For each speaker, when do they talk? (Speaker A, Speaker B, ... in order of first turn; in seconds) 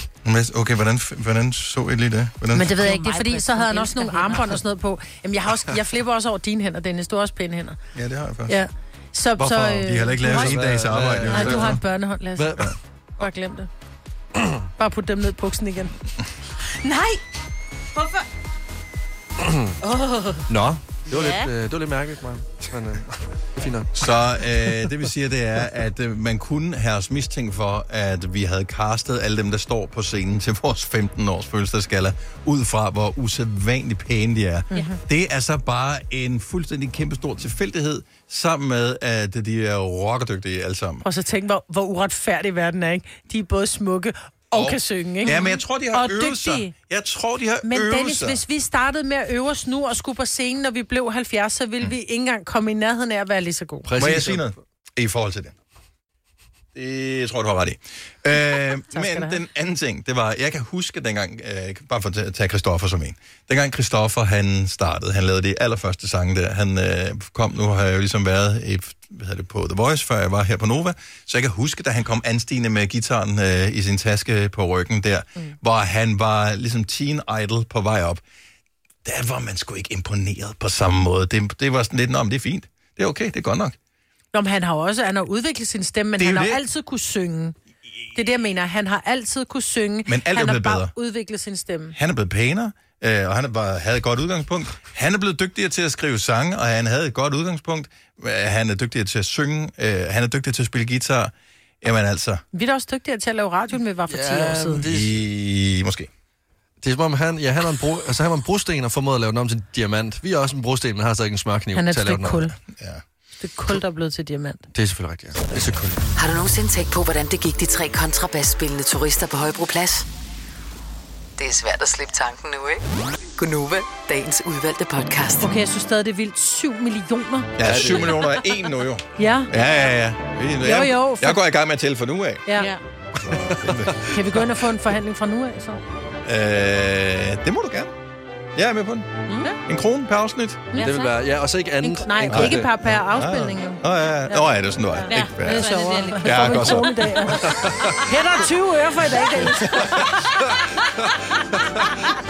Speaker A: 0.2-2.7, 7.9-8.6, 9.8-11.8, 23.9-41.0, 44.5-48.4, 54.0-55.5, 56.8-78.2, 79.0-83.8, 86.2-86.6, 90.1-90.9, 91.9-102.4, 104.9-106.1, 112.7-113.0, 127.6-132.4, 133.6-134.0, 136.2-137.9, 138.6-139.1, 139.6-140.7, 142.3-146.9, 149.8-150.0
Speaker B: 2.5-7.8, 8.5-10.6, 11.3-12.7, 13.2-13.7, 14.8-15.9, 34.7-35.0, 41.0-46.7, 47.6-53.9, 58.9-59.4, 84.3-87.6, 88.1-92.0, 102.5-104.9, 111.7-112.5, 113.4-114.7, 125.4-127.6, 129.2-129.5, 130.6-131.4, 134.1-135.8, 139.3-139.6, 141.8-150.2
Speaker C: 2.7-4.6, 16.8-17.2, 17.9-18.2, 19.8-20.5, 21.1-21.5, 45.2-45.6, 140.7-141.2, 145.1-147.1
Speaker D: 9.4-11.8, 12.4-12.8, 19.4-19.8, 20.5-24.1, 53.9-54.5, 104.1-105.2, 106.8-112.5, 114.7-116.0, 127.6-128.2, 133.3-134.2, 140.8-142.7, 147.4-148.0, 150.4-152.1
Speaker E: 116.2-120.1, 121.4-122.8, 123.4-125.5